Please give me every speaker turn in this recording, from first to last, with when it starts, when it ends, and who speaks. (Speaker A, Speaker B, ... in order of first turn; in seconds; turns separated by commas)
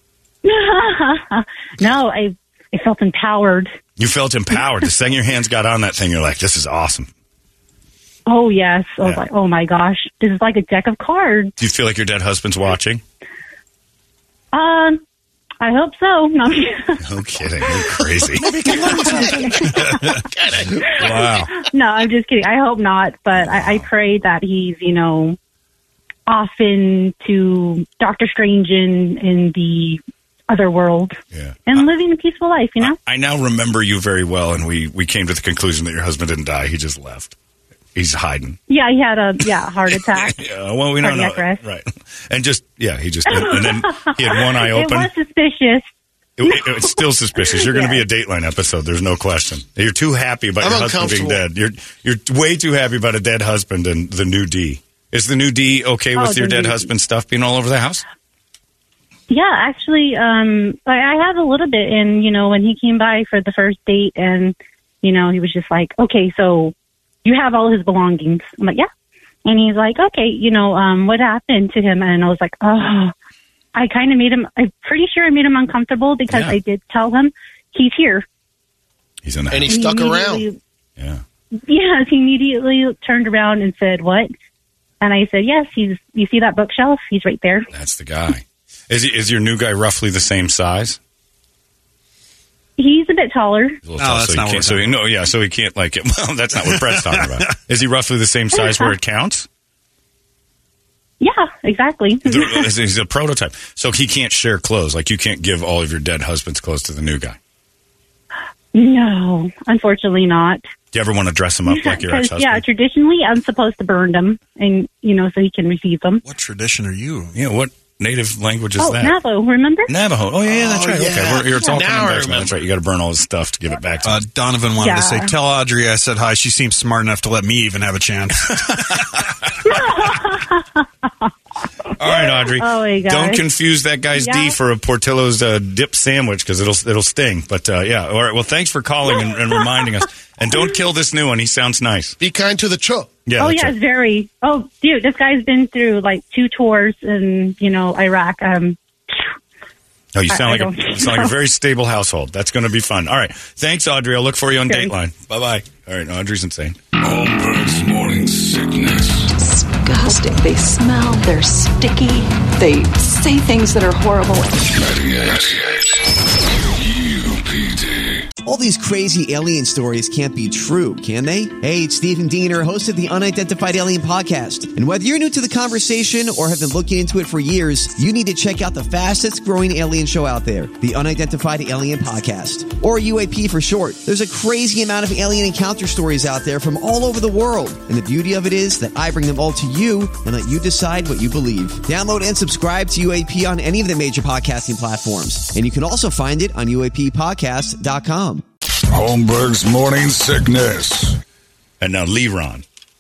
Speaker A: 0.4-3.7, Speaker B: 4.0-7.1, Speaker A: 8.3-11.5, Speaker B: 11.6-13.0, Speaker A: 14.5-15.0, Speaker A: 15.6-17.0, Speaker B: 17.0-20.2, Speaker C: 18.4-19.5, Speaker C: 20.2-20.8, Speaker B: 20.8-21.5, Speaker A: 20.8-25.4, Speaker B: 23.3-23.9, Speaker A: 26.3-33.0, Speaker B: 31.3-31.9, Speaker B: 32.8-37.4, Speaker B: 38.0-38.6, Speaker A: 38.7-40.4, Speaker B: 40.1-45.1, Speaker A: 41.0-41.6, Speaker A: 43.5-45.9, Speaker B: 46.4-58.0, Speaker A: 47.7-48.0, Speaker C: 50.6-51.4, Speaker A: 56.2-56.9, Speaker A: 59.3-68.9, Speaker A: 69.5-73.1, Speaker A: 73.8-78.2, Speaker B: 76.3-76.6, Speaker B: 79.2-79.8, Speaker C: 79.5-80.4, Speaker A: 79.7-80.6, Speaker A: 81.7-84.3, Speaker A: 85.0-87.7, Speaker B: 87.7-91.0, Speaker A: 92.8-93.8, Speaker B: 93.8-99.5, Speaker D: 94.0-95.0, Speaker A: 101.2-102.7, Speaker B: 102.3-107.4, Speaker A: 108.7-110.6, Speaker B: 110.9-112.6, Speaker A: 111.7-116.2, Speaker D: 116.2-117.3, Speaker B: 117.3-119.2, Speaker A: 118.8-119.9, Speaker B: 119.9-124.2, Speaker C: 120.5-122.5, Speaker D: 124.0-129.1, Speaker A: 124.8-125.3, Speaker B: 128.5-129.7, Speaker A: 129.6-131.1, Speaker B: 132.0-142.2, Speaker A: 132.0-133.4, Speaker A: 134.2-134.6, Speaker C: 142.2-143.1, Speaker B: 143.3-143.8, Speaker A: 143.4-149.2, Speaker B: 150.2-156.8, Speaker A: 150.3-151.3, Speaker A: 154.7-154.9, Speaker E: 157.0-159.3, Speaker F: 159.4-164.6, Speaker E: 164.8-165.8, Speaker E: 166.8-168.2, Speaker G: 168.4-198.4, Speaker E: 198.9-201.1, Speaker B: 201.8-202.6